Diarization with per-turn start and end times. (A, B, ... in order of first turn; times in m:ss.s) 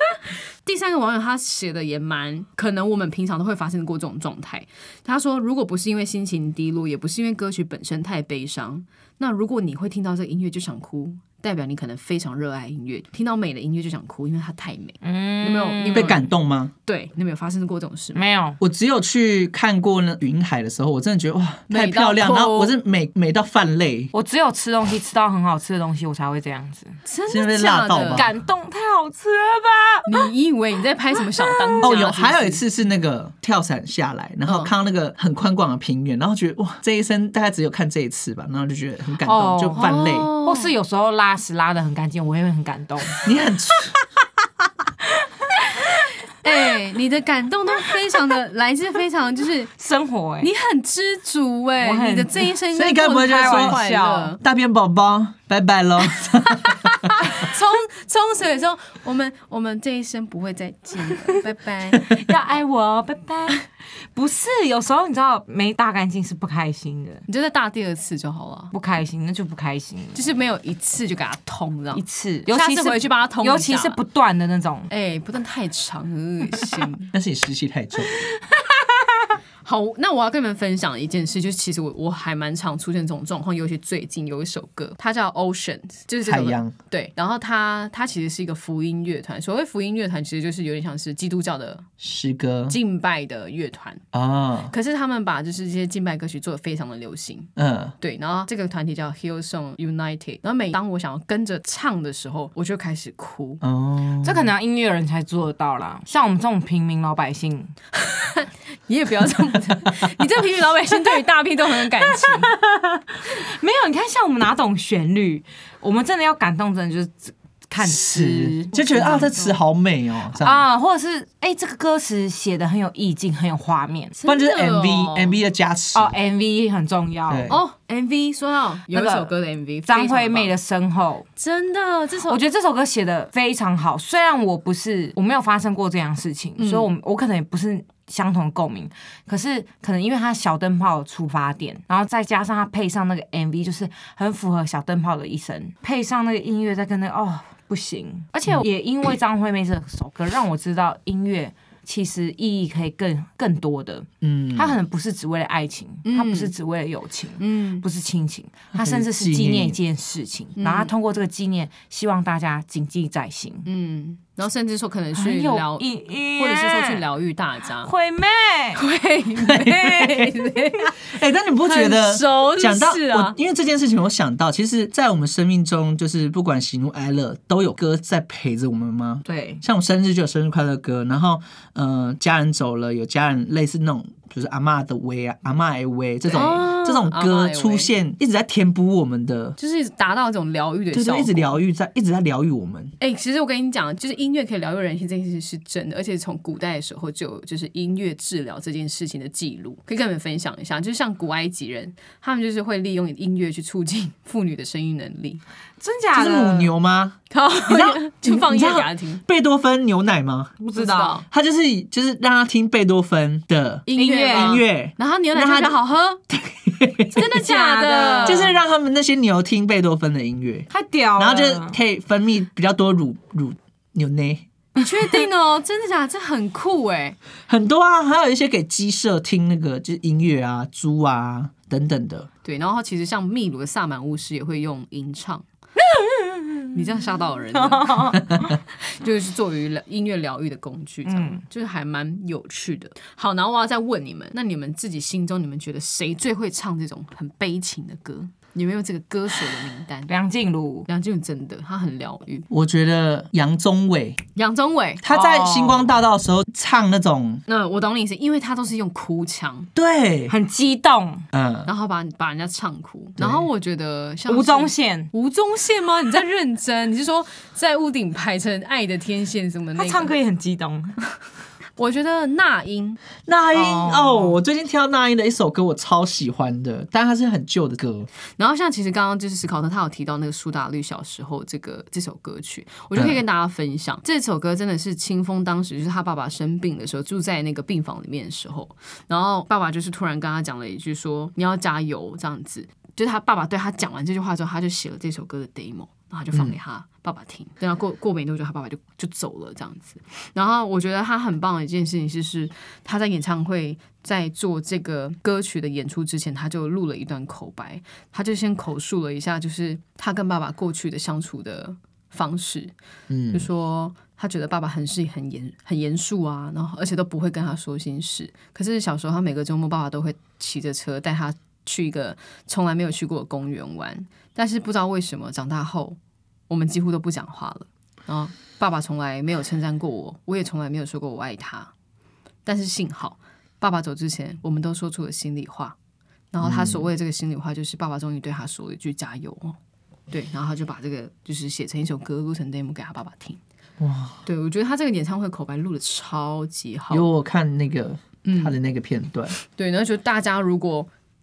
0:00.6-0:16.3 A
0:15.0-0:16.2 B
0:15.9-0:16.7 C
0:16.8-0:18.2 A
0:18.1-0:18.6 B
0:18.6-0:24.1 C
0:21.7-0:22.7 A
0:24.1-0:27.0 B
0:27.0-0:28.3 A
0:27.3-0:28.3 C
0:28.1-0:30.3 B
0:30.0-0:32.6 A
0:31.4-0:31.8 B
0:31.8-0:40.3 C
0:39.2-0:43.2 B
0:39.7-0:40.7 A
0:43.2-0:44.0 C
0:46.4-0:49.7 A
0:49.8-0:50.5 B
0:50.4-0:54.4 A
0:51.8-0:54.4 B
0:52.7-0:53.8 C
0:54.4-0:57.5 C
0:56.2-1:02.2 A
1:02.0-1:07.2 B
1:07.3-1:08.7 A
1:08.7-1:10.2 B
1:10.1-1:14.0 A
1:11.9-1:14.9 B
1:14.9-1:17.1 A
1:17.1-1:18.2 C
1:19.6-1:31.9 A
1:26.2-1:26.7 C
1:32.0-1:32.8 C
1:32.7-1:34.0 A
1:34.1-1:34.7 C
1:34.7-1:37.5 A
1:37.6-1:37.9 C
1:38.0-1:43.6 A
1:43.6-1:44.5 C
1:44.2-1:47.7 B
1:48.0-1:52.5 A
1:52.0-1:58.7 B
1:57.8-2:00.6 C
1:58.7-1:59.6 A
2:00.3-2:04.1 B
2:04.2-2:05.4 A
2:04.2-2:06.1 C
2:05.9-2:07.5 B
2:07.3-2:07.6 C
2:07.5-2:10.5 A
2:08.9-2:09.3 B
2:09.8-2:11.2 B
2:11.4-2:12.4 A
2:12.3-2:43.7 B
2:16.6-2:16.9 A
2:34.2-2:34.8 C
2:36.0-2:36.5 A
2:37.4-2:37.8 A
2:38.7-2:39.8 C
2:40.6-2:40.9 A
2:43.6-2:47.9 A
2:45.1-2:47.0 B
2:47.8-2:48.8 B
2:48.8-2:50.9 A
2:49.4-2:50.4 C
2:51.0-3:09.6 C
2:51.6-2:53.4 A
2:59.2-2:59.6 B
3:06.3-3:07.9 A
3:09.6-3:11.6 A
3:10.9-3:12.9 C
3:13.0-3:25.4 A
3:25.8-3:26.7 B
3:26.2-3:30.6 C
3:27.3-3:29.2 A
3:30.6-3:31.2 B
3:30.7-3:31.2 A
3:31.3-3:35.8 C
3:33.9-3:36.2 A
3:33.9-3:34.6 B
3:36.3-3:37.2 C
3:37.1-3:38.5 A
3:37.2-3:38.5 B
3:38.2-3:44.5 C
3:40.7-3:41.8 B
3:44.8-3:47.2 A
3:45.0-3:45.2 B
3:47.5-3:52.3 C
3:52.4-3:55.4 A
3:55.8-3:56.8 B
3:56.7-4:10.1 A
3:57.5-3:58.5 B
4:01.0-4:01.4 B
4:10.1-4:10.9 B
4:10.9-4:12.5 A
4:12.5-4:14.2 C
4:14.4-4:15.0 A
4:15.0-4:17.4 C
4:15.1-4:16.0 B
4:17.5-4:19.7 A
4:19.7-4:20.3 C
4:20.3-4:21.2 B
4:21.3-4:21.7 C
4:21.6-4:30.1 A
4:23.2-4:23.5 C
4:24.3-4:25.1 B
4:29.8-4:31.0 B
4:31.8-4:33.0 A
4:33.2-4:38.1 C
4:33.5-4:34.3 B
4:38.4-5:12.7 A
4:42.9-4:43.2 C
5:13.1-5:13.5 C
5:13.3-5:26.0 A
5:26.5-5:31.7 A
5:32.4-5:35.7 A
5:36.3-5:39.6 A
5:36.4-5:36.8 C
5:40.1-5:43.4 A
5:43.8-5:44.2 C
5:44.2-5:47.1 A
5:46.9-5:49.4 C
5:48.2-5:48.6 A
5:49.4-5:50.9 A